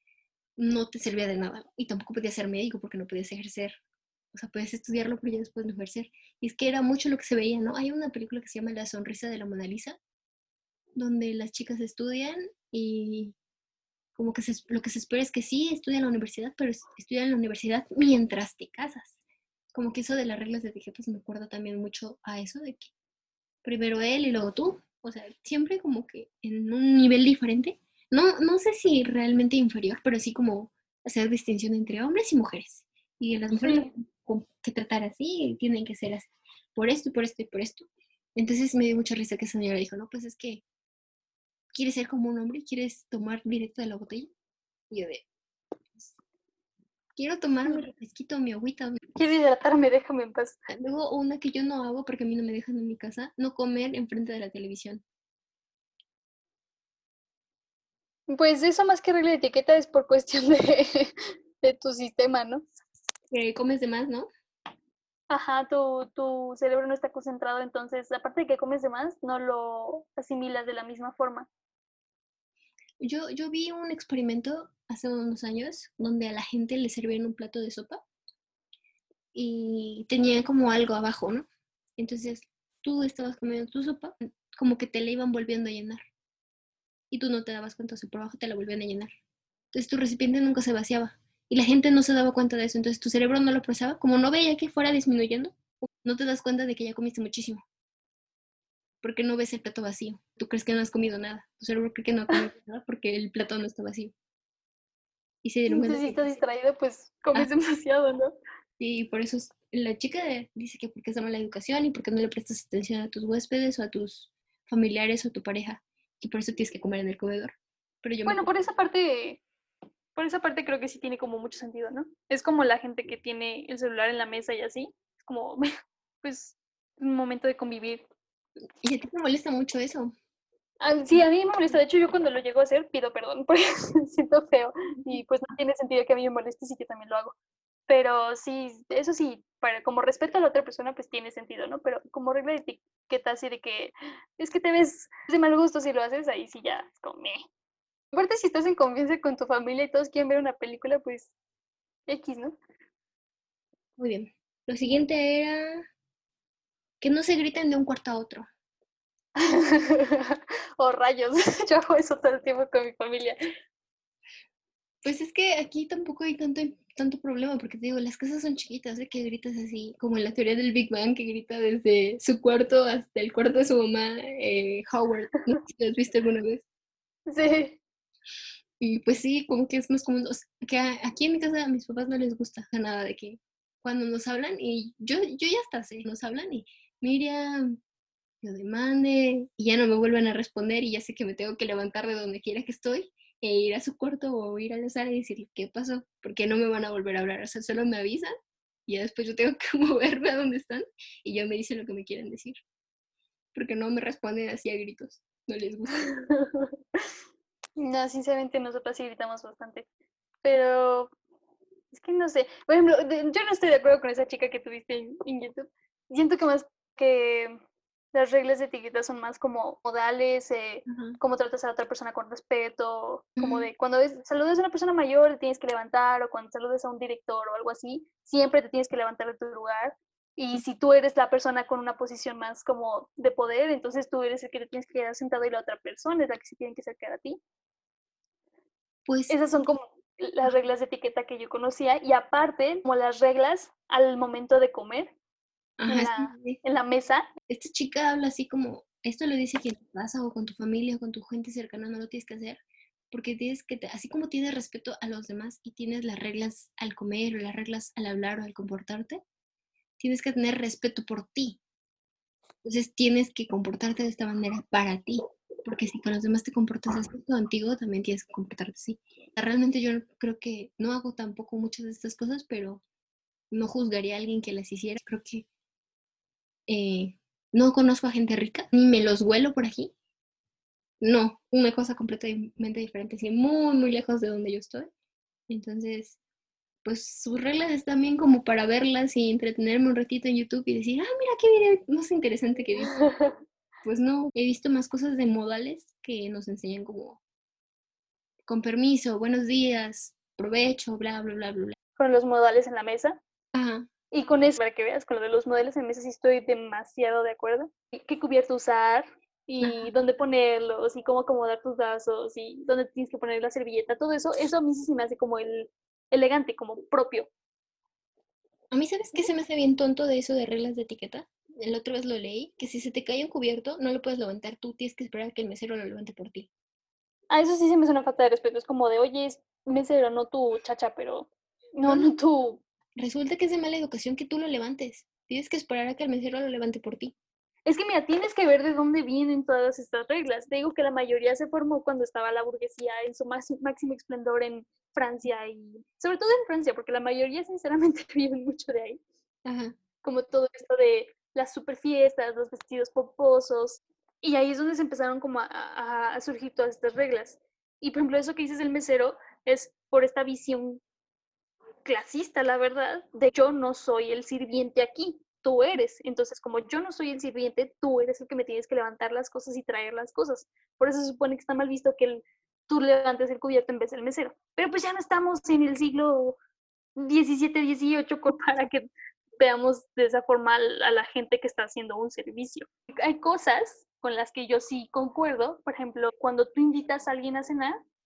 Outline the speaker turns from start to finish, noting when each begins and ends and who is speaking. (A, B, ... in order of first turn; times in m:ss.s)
0:00.6-0:03.8 A
0:04.3-0:10.0 A
0:10.9-0:13.3 A
0:14.1-0:19.2 A
0:19.7-0:22.9 A
0:23.6-0:40.6 A
0:33.5-0:33.9 B
0:41.7-0:44.3 A
0:44.9-0:45.2 A
0:47.2-0:49.0 A
0:49.1-0:50.6 B
0:50.7-0:55.0 A
0:58.3-1:02.7 B
1:03.3-1:04.3 A
1:05.3-1:11.5 B
1:13.0-1:18.0 A
1:19.3-1:26.0 A
1:27.1-1:29.1 A
1:29.7-1:37.6 A
1:39.0-1:44.1 A
1:45.4-1:46.4 A
1:45.7-1:48.4 B
1:48.8-1:58.5 A
1:58.2-1:59.4 B
2:00.2-2:05.6 B
2:06.2-2:08.0 B
2:08.8-2:10.1 A
2:10.8-2:17.3 B
2:17.9-2:27.4 B
2:28.1-2:31.3 B
2:32.1-2:32.5 B
2:34.0-2:35.8 A
2:37.0-2:38.5 A
2:39.4-2:43.4 B
2:45.0-2:56.6 A
2:57.3-2:57.8 B
2:58.8-3:07.7 A
3:08.4-3:18.3 A
3:18.9-3:22.6 A
3:23.5-3:26.1 A
3:26.3-3:27.1 B
3:27.8-3:29.8 B
3:30.4-3:31.1 B
3:31.9-3:37.6 B
3:38.1-3:57.4 B
3:40.8-3:41.2 A
3:43.4-3:43.7 A
3:59.0-3:59.4 A
3:59.3-4:05.1 B
4:05.8-4:06.6 A
4:05.9-4:07.2 B
4:07.5-4:19.2 A
4:20.0-4:21.6 A
4:22.6-4:32.8 A
4:33.5-4:35.4 A
4:36.7-4:39.9 A
4:41.0-4:44.9 A
4:45.5-4:46.2 A
4:46.8-4:53.0 A
4:53.0-4:53.3 B
4:53.8-4:57.2 A
4:58.5-5:01.7 A
5:02.0-5:03.2 B
5:03.5-5:03.9 A
5:04.1-5:17.3 B
5:09.6-5:09.9 A
5:18.7-5:26.5 A
5:27.3-5:32.6 B
5:31.8-5:32.1 A
5:33.0-5:37.1 A
5:37.6-5:49.0 B
5:49.4-5:49.8 A
5:50.0-6:00.8 B
6:01.8-6:16.4 B
6:17.0-6:27.8 B